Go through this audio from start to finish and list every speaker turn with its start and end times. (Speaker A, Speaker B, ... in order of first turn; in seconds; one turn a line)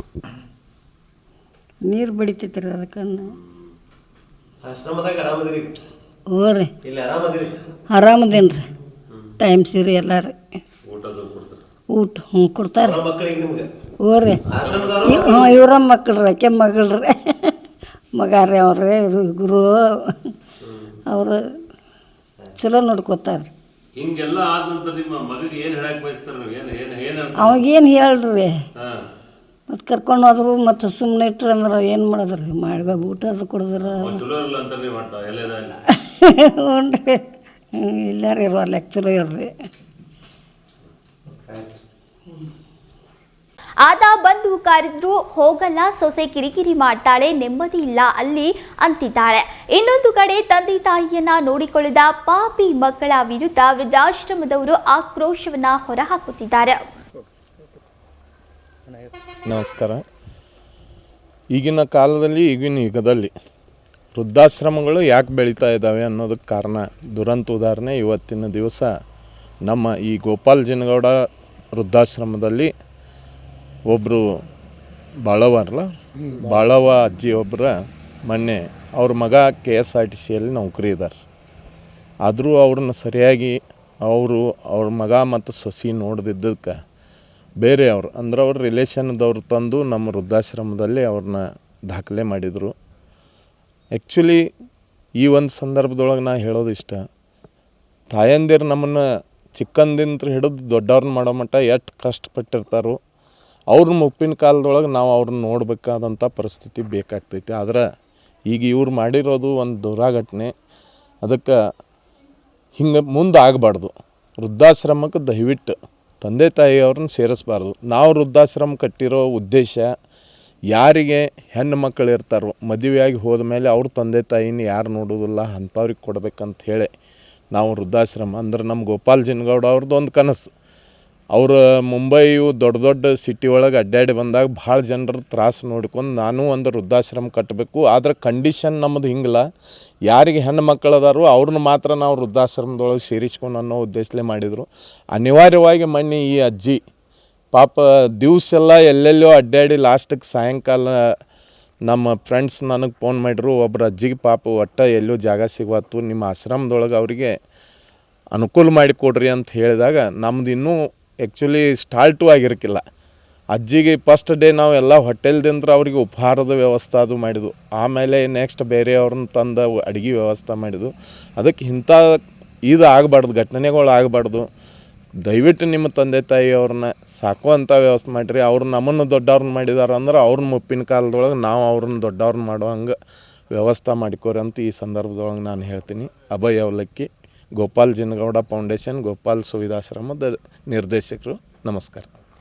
Speaker A: 1.9-3.4
Speaker B: 3.3-3.7
Speaker C: 4.6-5.7
Speaker A: 6.3-6.7
Speaker C: 6.8-7.6
Speaker A: 7.9-8.7
Speaker A: 9.4-10.3
Speaker B: 10.9-11.6
Speaker A: 11.9-13.0
Speaker C: 12.8-13.7
Speaker A: 14.1-14.4
Speaker C: 14.5-15.7
Speaker B: 14.6-15.0
Speaker A: 15.0-17.5
Speaker A: 18.2-20.3
Speaker C: 20.6-21.0
Speaker A: 21.1-21.4
Speaker A: 22.6-23.5
Speaker B: 24.0-27.6
Speaker A: 27.4-28.5
Speaker A: 29.7-34.2
Speaker B: 33.8-35.9
Speaker A: 35.9-37.2
Speaker A: 37.9-39.5
Speaker C: 41.3-41.8
Speaker D: 43.8-56.8
Speaker E: 59.5-60.0
Speaker E: 61.5-63.3
Speaker E: 64.1-68.9
Speaker E: 69.7-71.2
Speaker E: 71.8-72.7
Speaker E: 73.9-74.2
Speaker E: 75.3-77.7
Speaker E: 78.3-81.2
Speaker E: 82.2-86.8
Speaker E: 87.6-92.8
Speaker E: 94.0-94.4
Speaker E: 95.2-97.0
Speaker E: 98.1-99.0
Speaker E: 99.5-103.0
Speaker E: 103.7-107.8
Speaker E: 108.5-110.5
Speaker E: 111.2-111.6
Speaker E: 112.8-119.9
Speaker E: 120.7-126.9
Speaker E: 127.5-130.5
Speaker E: 131.3-139.4
Speaker E: 140.1-146.8
Speaker E: 147.5-151.0
Speaker E: 151.9-157.4
Speaker E: 158.3-162.8
Speaker E: 163.6-174.5
Speaker E: 175.3-182.9
Speaker E: 183.5-192.1